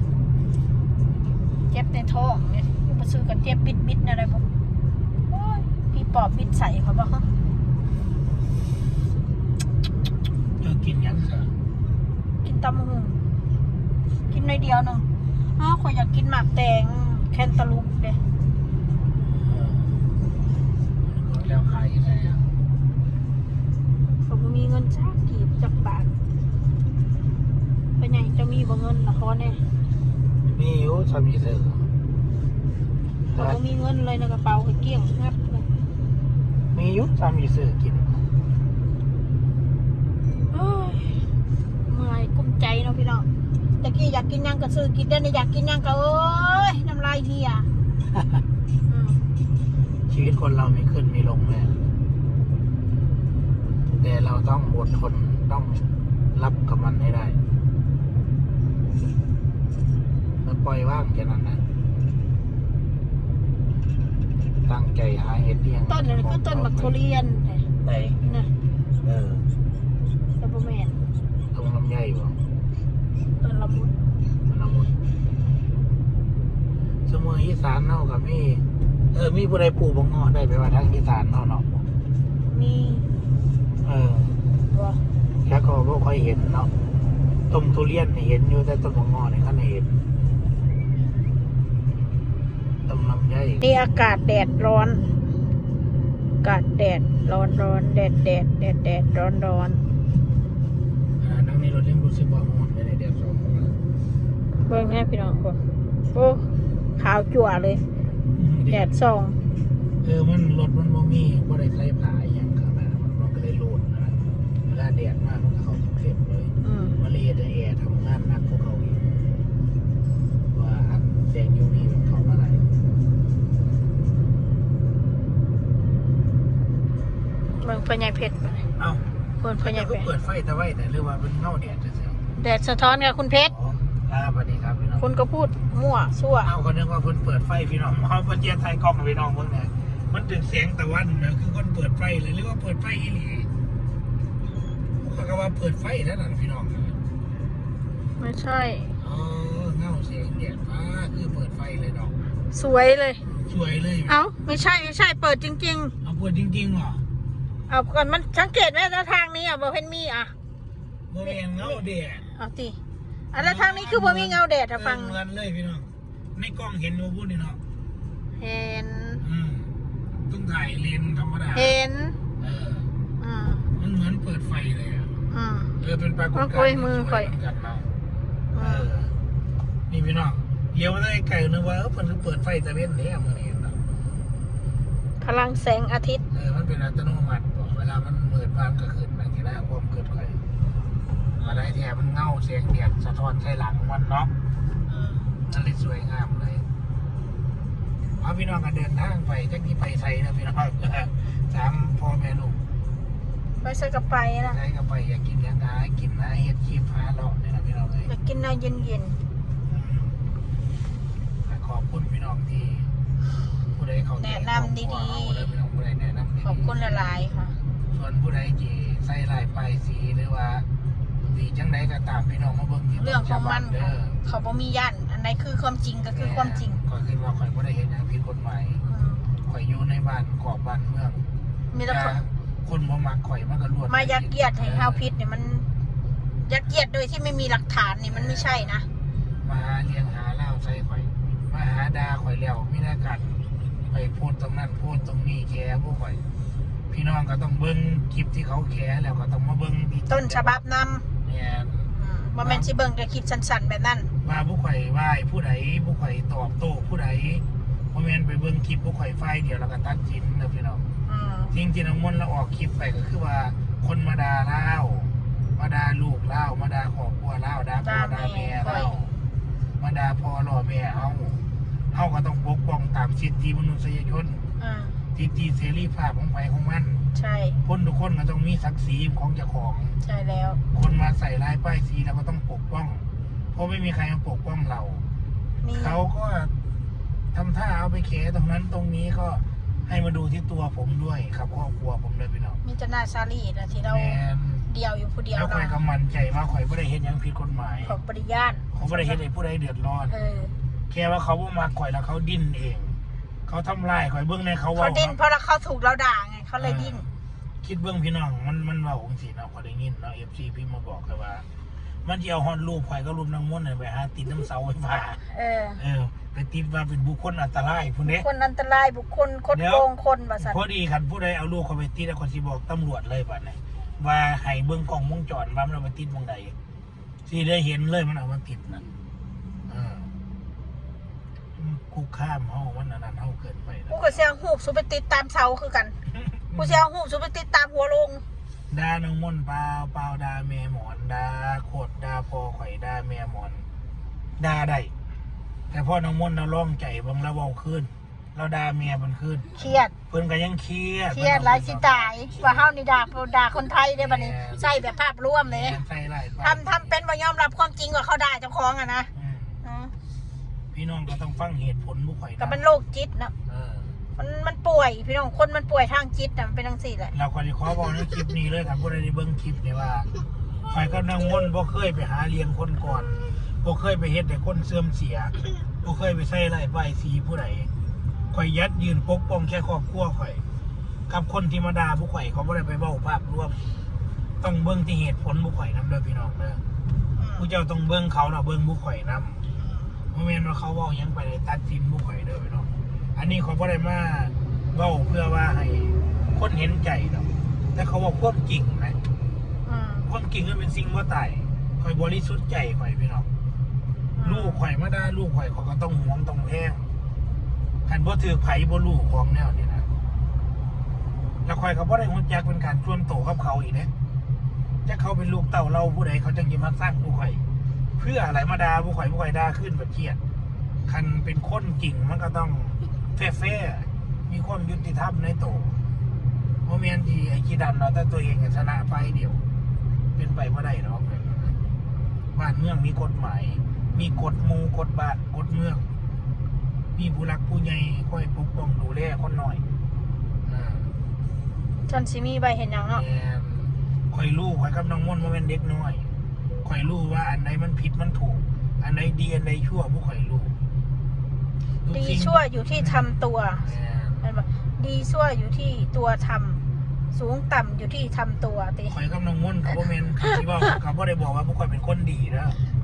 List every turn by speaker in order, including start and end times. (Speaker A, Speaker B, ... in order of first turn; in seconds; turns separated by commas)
Speaker A: 1.7-4.4, Speaker A: 5.3-7.3, Speaker B: 10.6-11.5, Speaker A: 12.4-13.2, Speaker A: 14.3-18.2, Speaker B: 19.2-20.1, Speaker B: 21.0-22.5, Speaker A: 24.2-26.1, Speaker A: 28.0-29.6, Speaker B: 30.4-31.9, Speaker B: 33.3-33.6, Speaker A: 33.3-35.7, Speaker B: 36.7-38.2, Speaker A: 40.5-41.2, Speaker A: 41.9-43.3, Speaker A: 43.8-47.7, Speaker A: 48.9-49.2, Speaker B: 50.1-51.8, Speaker B: 54.0-57.4, Speaker B: 60.4-61.6, Speaker B: 64.6-67.0, Speaker A: 65.9-67.7, Speaker B: 67.8-68.2, Speaker A: 68.2-68.5, Speaker B: 69.0-69.5, Speaker A: 70.4-71.0, Speaker B: 71.5-72.4, Speaker A: 73.4-73.9, Speaker B: 74.5-74.9, Speaker B: 77.1-81.8, Speaker A: 82.5-83.0, Speaker B: 83.8-84.4, Speaker A: 84.7-85.0, Speaker B: 85.4-86.7, Speaker B: 87.5-90.0, Speaker B: 92.8-93.7, Speaker A: 93.6-95.1, Speaker A: 96.4-99.8, Speaker B: 101.2-103.7, Speaker A: 104.6-107.8, Speaker B: 108.3-108.9, Speaker A: 108.7-109.4, Speaker B: 110.0-119.0, Speaker A: 116.6-117.0, Speaker B: 120.5-122.7, Speaker A: 127.6-128.7, Speaker B: 128.8-129.0, Speaker A: 129.4-130.1, Speaker B: 129.6-132.2, Speaker A: 132.3-133.5, Speaker B: 133.5-135.1, Speaker A: 135.0-136.5, Speaker B: 136.4-143.5, Speaker B: 145.0-147.0, Speaker A: 148.2-148.9, Speaker B: 149.0-152.3, Speaker A: 152.5-153.2, Speaker B: 153.3-154.2, Speaker A: 154.1-155.9, Speaker B: 156.0-157.0, Speaker A: 157.7-160.3, Speaker B: 161.1-162.2, Speaker A: 161.2-161.8, Speaker A: 162.3-162.8, Speaker A: 163.3-165.2, Speaker B: 163.3-167.6, Speaker A: 168.3-169.2, Speaker B: 169.2-169.7, Speaker B: 170.3-171.8, Speaker A: 171.5-172.2, Speaker B: 172.4-172.9, Speaker A: 173.2-173.7, Speaker B: 173.7-175.1, Speaker A: 175.3-175.7, Speaker B: 175.8-177.9, Speaker A: 176.3-177.3, Speaker A: 178.5-178.9, Speaker B: 178.6-179.1, Speaker B: 179.9-183.8, Speaker A: 185.2-186.2, Speaker B: 186.3-190.4, Speaker A: 191.4-191.7, Speaker B: 191.4-194.3, Speaker A: 194.9-195.3, Speaker B: 195.4-196.7, Speaker B: 198.2-202.6, Speaker A: 203.6-204.6, Speaker B: 204.5-208.1, Speaker A: 208.1-209.2, Speaker B: 209.7-210.2, Speaker B: 211.4-212.9, Speaker B: 213.7-216.7, Speaker A: 214.2-215.5, Speaker A: 216.4-217.6, Speaker B: 217.9-220.7, Speaker B: 221.2-224.2, Speaker A: 222.9-226.8, Speaker B: 226.1-228.8, Speaker A: 228.8-229.2, Speaker B: 229.4-231.2, Speaker A: 231.7-232.2, Speaker B: 231.9-235.1, Speaker A: 233.9-235.7, Speaker A: 236.4-238.9, Speaker B: 238.1-238.8, Speaker B: 239.4-246.2, Speaker B: 246.9-250.6, Speaker A: 250.1-251.0, Speaker B: 251.2-252.7, Speaker A: 251.9-254.1, Speaker B: 254.2-260.8, Speaker A: 261.1-261.5, Speaker B: 261.5-269.1, Speaker A: 267.8-268.9, Speaker B: 269.8-271.4, Speaker B: 271.9-274.4, Speaker A: 274.6-274.9, Speaker B: 275.1-277.0, Speaker A: 277.1-277.6, Speaker B: 277.6-280.0, Speaker A: 280.0-280.6, Speaker B: 280.7-285.0, Speaker A: 285.6-286.0, Speaker B: 285.7-286.5, Speaker B: 287.3-292.6, Speaker A: 292.6-295.8, Speaker B: 293.8-294.7, Speaker B: 295.3-298.0, Speaker A: 297.8-299.2, Speaker B: 298.7-300.1, Speaker A: 300.1-300.5, Speaker B: 300.9-305.2, Speaker A: 304.7-307.0, Speaker B: 306.6-307.1, Speaker B: 307.6-311.4, Speaker B: 312.0-315.2, Speaker A: 315.3-315.8, Speaker B: 315.8-318.2, Speaker A: 318.1-320.6, Speaker B: 319.5-319.9, Speaker B: 320.4-326.5, Speaker B: 327.2-328.9, Speaker B: 329.7-330.1, Speaker B: 331.6-334.3, Speaker A: 333.9-335.9, Speaker B: 336.1-336.8, Speaker A: 336.5-338.2, Speaker B: 338.7-343.6, Speaker B: 344.4-344.9, Speaker B: 345.7-349.5, Speaker A: 349.5-349.9, Speaker B: 350.1-352.7, Speaker A: 351.1-355.8, Speaker B: 354.0-354.7, Speaker B: 355.4-356.9, Speaker A: 356.4-359.1, Speaker B: 359.1-359.6, Speaker A: 359.6-359.9, Speaker B: 360.7-362.6, Speaker A: 362.4-363.3, Speaker B: 363.5-364.0, Speaker A: 364.2-367.1, Speaker B: 367.1-370.1, Speaker B: 370.7-377.7, Speaker B: 378.3-380.4, Speaker B: 381.1-383.6, Speaker B: 384.4-386.6, Speaker A: 387.1-387.5, Speaker B: 387.4-389.4, Speaker A: 389.6-390.0, Speaker B: 390.1-399.0, Speaker A: 399.6-400.1, Speaker B: 400.1-403.3, Speaker A: 404.1-404.6, Speaker B: 404.2-406.8, Speaker B: 407.9-409.9, Speaker B: 411.4-413.9, Speaker B: 414.8-417.4, Speaker B: 418.0-420.2, Speaker B: 420.9-425.8, Speaker B: 426.6-429.4, Speaker B: 430.1-431.6, Speaker B: 432.3-435.8, Speaker B: 436.9-439.6, Speaker B: 440.4-440.9, Speaker A: 441.9-443.0, Speaker B: 442.9-446.1, Speaker B: 446.6-450.5, Speaker B: 451.8-454.3, Speaker A: 451.9-453.6, Speaker A: 454.2-456.6, Speaker A: 457.1-459.0, Speaker B: 458.9-462.6